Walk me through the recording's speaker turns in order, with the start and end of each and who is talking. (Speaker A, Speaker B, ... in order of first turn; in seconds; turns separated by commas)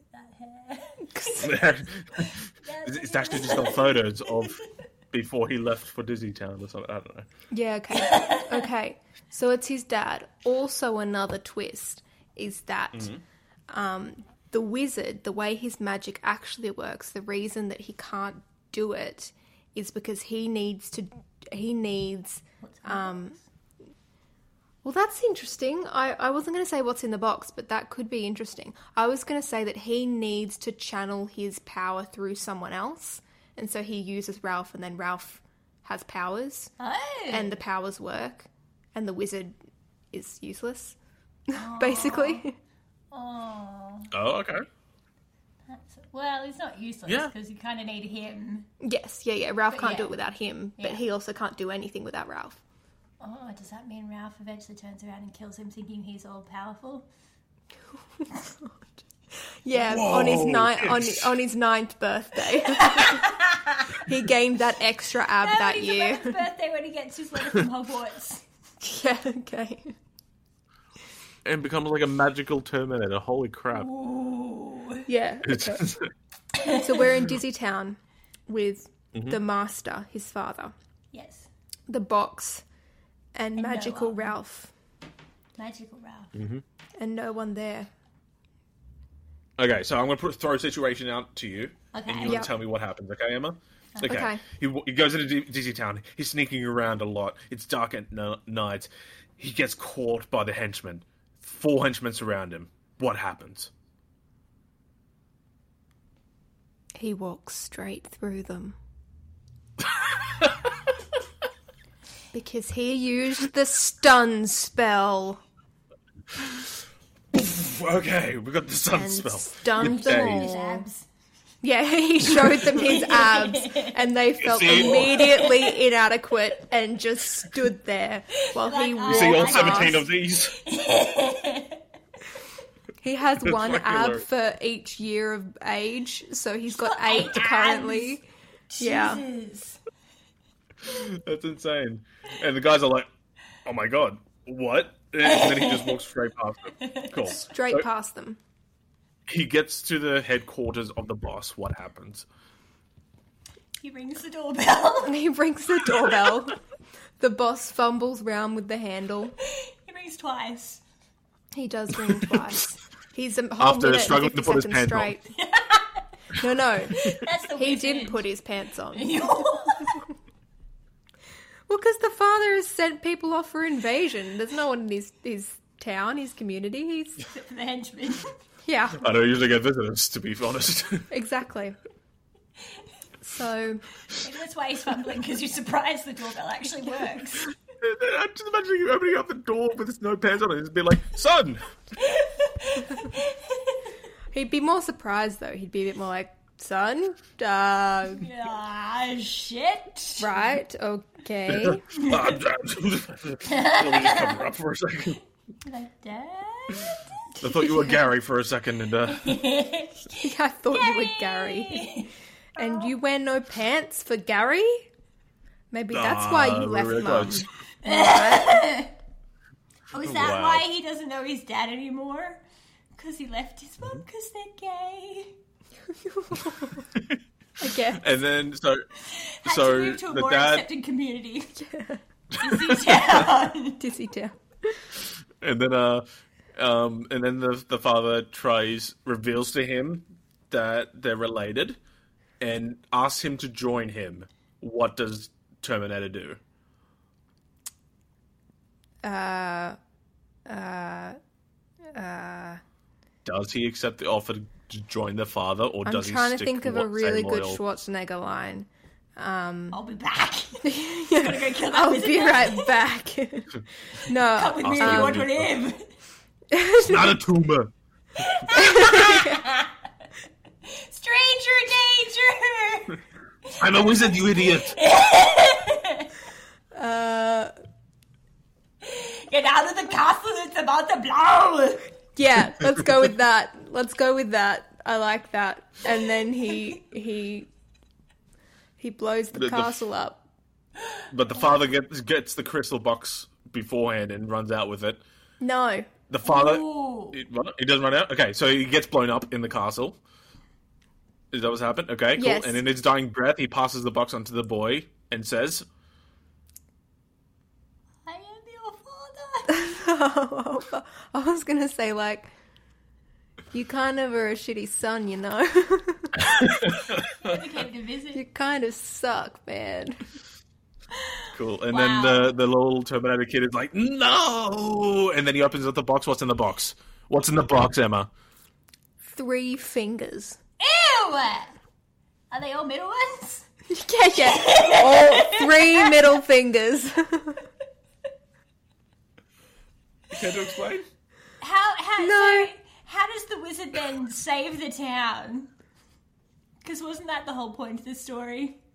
Speaker A: 0.1-1.4, Speaker B: 1.1-1.5, Speaker C: 1.4-7.3, Speaker A: 2.6-4.6, Speaker B: 7.5-13.1, Speaker A: 7.9-8.4, Speaker C: 12.9-13.2, Speaker B: 13.7-23.4, Speaker A: 22.6-23.4, Speaker B: 24.8-36.7, Speaker A: 36.8-37.6, Speaker B: 37.3-39.5, Speaker B: 40.1-41.0, Speaker B: 41.5-42.5, Speaker A: 41.5-42.4, Speaker A: 43.1-44.1, Speaker C: 44.1-44.6, Speaker A: 45.7-48.7, Speaker C: 47.0-47.3, Speaker B: 48.8-52.6, Speaker A: 49.7-50.2, Speaker A: 53.2-57.0, Speaker B: 59.6-63.3, Speaker C: 59.8-61.4, Speaker A: 62.7-63.9, Speaker B: 63.9-66.3, Speaker A: 65.4-68.4, Speaker B: 68.8-69.9, Speaker C: 71.4-73.9, Speaker A: 73.7-75.1, Speaker B: 75.1-75.9, Speaker C: 75.4-76.1, Speaker A: 76.5-77.0, Speaker B: 76.6-80.7, Speaker C: 79.1-79.4, Speaker A: 81.1-81.5, Speaker B: 81.9-82.6, Speaker B: 83.3-84.7, Speaker A: 83.6-84.3, Speaker A: 85.6-86.3, Speaker C: 86.3-86.6, Speaker B: 87.0-87.9, Speaker C: 89.6-103.7, Speaker A: 91.9-92.5, Speaker B: 92.2-92.5, Speaker A: 93.9-94.3, Speaker B: 94.0-94.4, Speaker B: 107.0-108.8, Speaker C: 110.0-110.8, Speaker B: 112.3-115.4, Speaker C: 116.4-116.7, Speaker C: 117.3-120.5, Speaker B: 118.9-120.9, Speaker A: 119.7-121.0, Speaker B: 121.6-130.0, Speaker A: 122.6-124.1, Speaker C: 124.4-125.3, Speaker A: 124.7-125.7, Speaker A: 128.5-131.8, Speaker C: 129.1-130.6, Speaker B: 133.0-138.2, Speaker C: 133.4-134.2, Speaker A: 136.7-139.8, Speaker B: 138.8-139.2, Speaker C: 140.8-143.1, Speaker C: 143.6-147.9, Speaker A: 145.2-146.0, Speaker A: 146.8-147.3, Speaker B: 147.4-148.4, Speaker C: 149.3-152.2, Speaker A: 153.8-155.2, Speaker B: 155.0-156.6, Speaker B: 157.2-159.3, Speaker A: 159.5-160.8, Speaker B: 161.5-165.2, Speaker C: 163.6-165.1, Speaker A: 165.3-166.1, Speaker B: 166.3-170.0, Speaker A: 166.9-168.2, Speaker A: 168.9-170.0, Speaker B: 171.7-177.2, Speaker A: 177.3-178.3, Speaker B: 178.6-179.1, Speaker C: 179.0-181.1, Speaker B: 181.1-181.8, Speaker B: 183.2-183.8, Speaker A: 184.1-187.5, Speaker C: 187.8-191.7, Speaker A: 192.0-193.8, Speaker B: 194.3-198.3, Speaker A: 198.1-200.6, Speaker B: 200.2-201.8, Speaker C: 201.5-205.2, Speaker A: 201.9-202.3, Speaker A: 203.4-204.5, Speaker A: 205.6-206.9, Speaker C: 207.4-209.4, Speaker A: 209.1-212.9, Speaker B: 210.1-214.9, Speaker B: 215.7-218.8, Speaker C: 215.9-217.5, Speaker A: 217.8-218.9, Speaker A: 219.9-222.4, Speaker C: 219.9-220.7, Speaker A: 222.9-225.3, Speaker B: 225.9-226.8, Speaker B: 227.6-228.1, Speaker C: 227.9-228.8, Speaker A: 229.1-231.5, Speaker C: 229.4-230.7, Speaker B: 231.6-232.0, Speaker A: 232.4-233.8, Speaker C: 232.4-233.2, Speaker B: 233.8-234.7, Speaker C: 235.4-241.8, Speaker C: 242.4-246.4, Speaker B: 249.0-249.8, Speaker B: 250.5-251.2, Speaker B: 251.9-252.6, Speaker C: 253.2-257.6, Speaker B: 255.8-259.8, Speaker A: 259.7-262.8, Speaker B: 260.6-265.2, Speaker A: 264.3-265.9, Speaker C: 264.6-265.5, Speaker B: 266.5-267.2, Speaker C: 266.8-267.7, Speaker A: 268.2-269.7, Speaker B: 268.5-269.4, Speaker A: 270.6-276.1, Speaker C: 273.6-274.8, Speaker B: 276.7-277.5, Speaker A: 278.8-282.0, Speaker B: 282.1-287.5, Speaker B: 288.8-290.2, Speaker C: 289.3-289.8, Speaker C: 291.1-295.0, Speaker B: 295.4-295.9, Speaker C: 296.1-300.0, Speaker A: 296.2-297.2, Speaker C: 301.3-305.6, Speaker B: 302.1-302.6, Speaker A: 308.0-309.7, Speaker B: 309.5-312.3, Speaker B: 313.5-316.2, Speaker C: 316.3-317.4, Speaker A: 316.4-318.2, Speaker B: 318.1-320.0, Speaker A: 320.9-322.4, Speaker C: 321.3-328.1, Speaker B: 329.0-330.4, Speaker A: 330.6-331.6, Speaker A: 332.3-333.5, Speaker B: 333.7-337.4, Speaker A: 334.2-336.1, Speaker C: 340.1-340.9, Speaker A: 341.4-345.5, Speaker B: 342.0-342.5, Speaker A: 346.6-348.6